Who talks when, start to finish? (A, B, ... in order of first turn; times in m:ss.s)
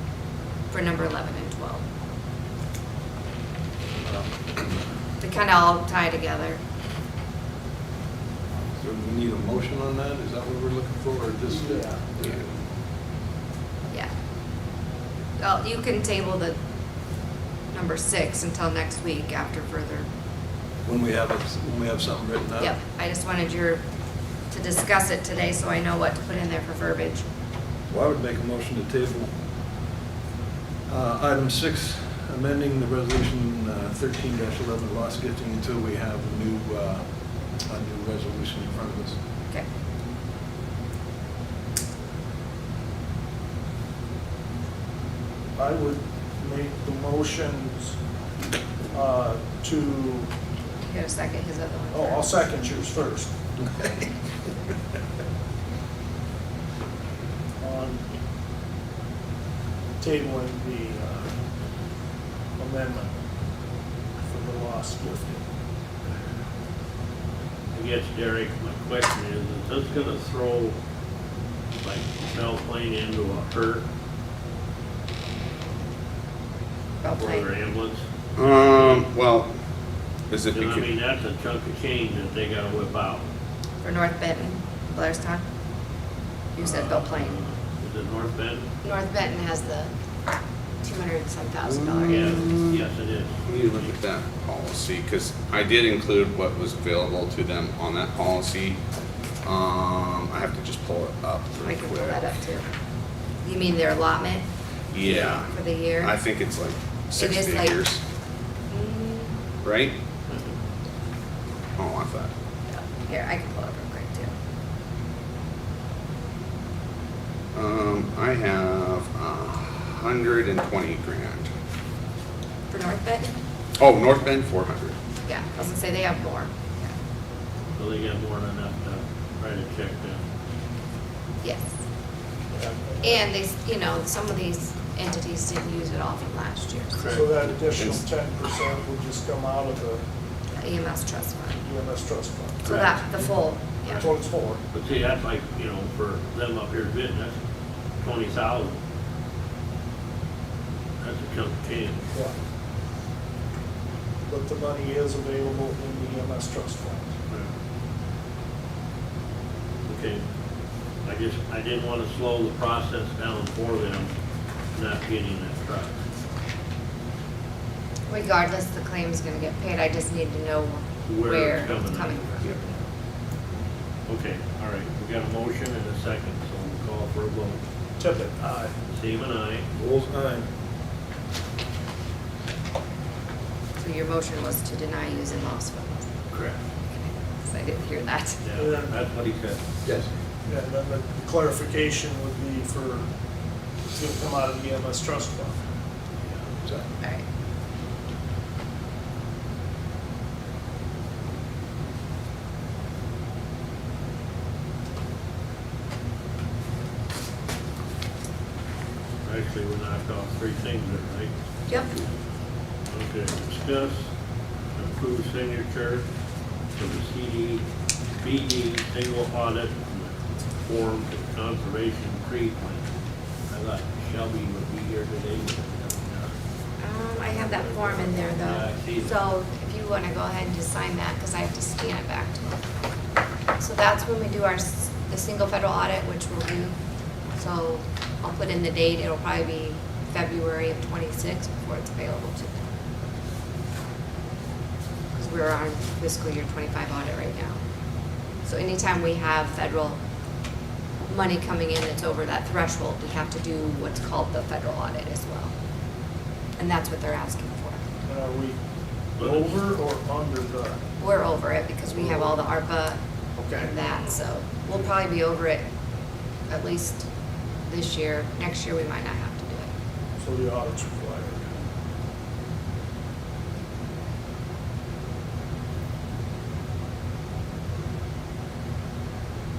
0:00.7-0:01.8 A
0:04.0-0:04.3 B
0:05.2-0:06.6 A
0:08.8-0:12.4 B
0:11.5-0:12.0 C
0:15.4-0:16.6 A
0:17.7-0:20.0 A
0:20.8-0:22.7 B
0:22.6-0:23.8 A
0:24.5-0:27.3 A
0:27.9-0:29.3 B
0:30.9-0:37.1 B
0:37.6-0:39.2 B
0:45.6-0:48.0 C
0:48.9-0:50.3 C
0:50.8-0:52.3 A
0:51.9-0:53.3 C
0:57.6-0:58.0 C
1:00.0-1:01.3 C
1:02.6-1:03.1 C
1:04.2-1:05.4 C
1:07.7-1:10.8 D
1:11.8-1:13.8 D
1:17.0-1:17.5 A
1:17.1-1:19.0 D
1:18.4-1:19.5 E
1:20.3-1:20.9 E
1:20.5-1:23.2 D
1:23.8-1:25.4 A
1:26.5-1:27.3 A
1:26.6-1:28.6 D
1:28.8-1:29.9 A
1:30.8-1:32.5 A
1:31.7-1:32.8 E
1:32.1-1:33.9 D
1:33.4-1:38.8 E
1:39.4-1:42.2 E
1:41.6-1:42.6 A
1:43.4-1:44.4 A
1:44.9-1:48.0 E
1:45.0-1:46.1 A
1:47.2-1:47.8 A
1:48.7-1:49.3 A
1:49.6-1:49.9 E
1:51.8-1:52.3 E
1:52.7-1:54.3 A
1:57.5-2:01.5 E
2:02.7-2:03.4 A
2:03.8-2:04.9 E
2:05.2-2:06.9 A
2:07.8-2:10.2 D
2:11.4-2:11.7 A
2:12.5-2:13.2 C
2:13.0-2:17.1 A
2:17.0-2:17.4 D
2:17.1-2:20.0 C
2:17.8-2:18.0 E
2:20.5-2:21.6 A
2:21.6-2:23.0 C
2:22.6-2:24.1 A
2:23.9-2:24.6 C
2:24.7-2:27.3 D
2:28.0-2:28.7 D
2:31.0-2:32.0 D
2:34.3-2:37.1 C
2:39.8-2:40.2 D
2:41.0-2:44.1 D
2:44.7-2:45.9 D
2:48.1-2:52.4 A
2:51.0-2:52.7 D
2:54.1-2:57.6 D
2:58.0-2:58.7 C
2:58.9-2:59.6 D
2:59.7-3:00.5 B
3:03.8-3:06.1 A
3:06.3-3:06.6 D
3:06.9-3:08.4 A
3:08.4-3:09.6 D
3:08.5-3:08.9 C
3:09.8-3:10.1 B
3:10.4-3:13.0 C
3:13.9-3:15.6 C
3:29.2-3:32.0 D
3:32.9-3:34.0 D
3:34.7-3:36.0 D
3:36.8-3:37.6 D
3:38.2-3:42.8 D
3:43.5-3:46.3 D
3:46.8-3:52.5 A
3:47.2-3:49.2 D
3:53.6-3:56.8 A
3:57.4-4:02.6 A
4:05.1-4:07.6 A
4:08.4-4:10.0 A
4:11.0-4:15.5 A
4:16.6-4:17.8 A
4:18.0-4:18.6 C
4:19.2-4:19.6 D
4:19.2-4:20.8 C
4:21.0-4:23.0 A
4:23.4-4:24.0 C
4:23.6-4:25.6 A
4:26.5-4:27.0 A
4:27.7-4:29.7 A
4:30.2-4:31.5 C